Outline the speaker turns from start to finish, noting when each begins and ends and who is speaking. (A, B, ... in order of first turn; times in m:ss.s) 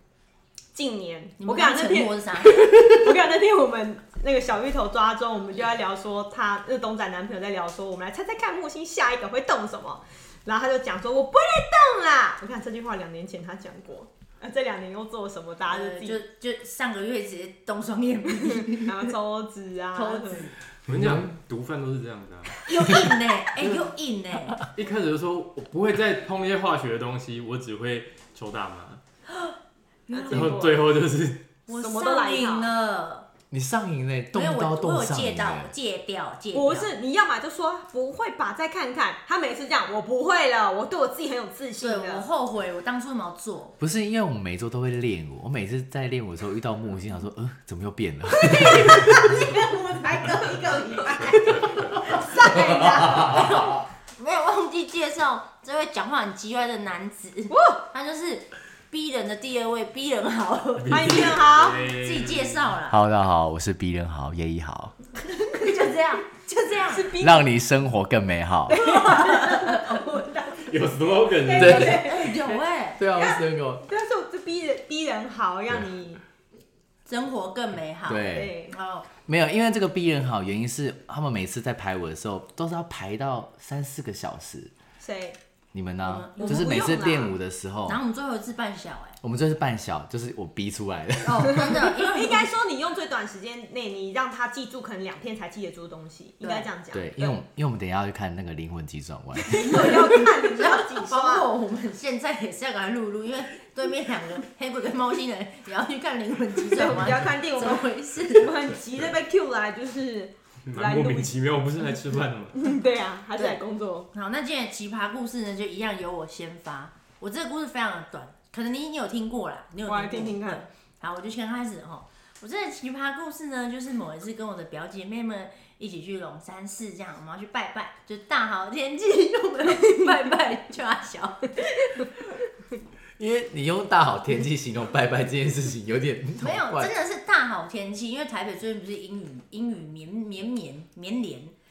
0:00.7-0:16.2 A
0:01.4-0:03.1 B
0:15.7-0:19.1 B
0:18.3-0:20.5 A
0:19.9-0:20.6 B
0:20.8-0:22.6 C
0:20.9-0:21.3 D
0:22.6-0:24.6 B
0:23.6-0:23.9 C
0:24.6-0:29.0 C
0:30.1-0:30.6 B
0:30.1-0:30.9 A
0:30.3-0:31.5 C
0:31.7-0:33.3 B
0:31.7-0:32.7 A
0:33.5-0:35.7 D
0:34.3-0:36.9 B
0:36.5-0:42.3 A
0:41.8-0:43.8 B
0:43.8-0:49.4 D
0:48.4-0:53.7 A
0:51.2-1:03.0 B
0:51.4-0:51.8 C
0:52.4-0:53.8 D
0:57.5-0:57.8 A
1:00.8-1:02.7 C
1:00.9-1:01.8 A
1:02.9-1:05.0 D
1:05.2-1:07.1 B
1:06.9-1:07.5 A
1:07.2-1:09.0 D
1:08.7-1:12.6 A
1:08.8-1:09.9 B
1:10.6-1:12.2 C
1:11.5-1:12.0 D
1:11.8-1:13.0 B
1:13.0-1:13.8 D
1:13.1-1:16.2 A
1:17.1-1:19.1 B
1:18.1-1:18.6 D
1:18.2-1:18.8 A
1:19.3-1:24.7 D
1:25.0-1:25.4 A
1:25.7-1:28.0 D
1:26.0-1:26.9 B
1:26.4-1:27.4 A
1:27.9-1:29.2 B
1:29.2-1:31.7 D
1:31.2-1:32.5 B
1:31.5-1:37.4 A
1:36.4-1:36.7 B
1:36.9-1:39.9 D
1:39.4-1:41.5 A
1:39.7-1:48.7 B
1:46.6-1:51.3 A
1:50.7-1:52.7 C
1:52.6-1:54.1 A
1:54.1-2:12.1 B
1:59.9-2:00.6 A
2:13.2-2:16.9 D
2:16.4-2:21.5 B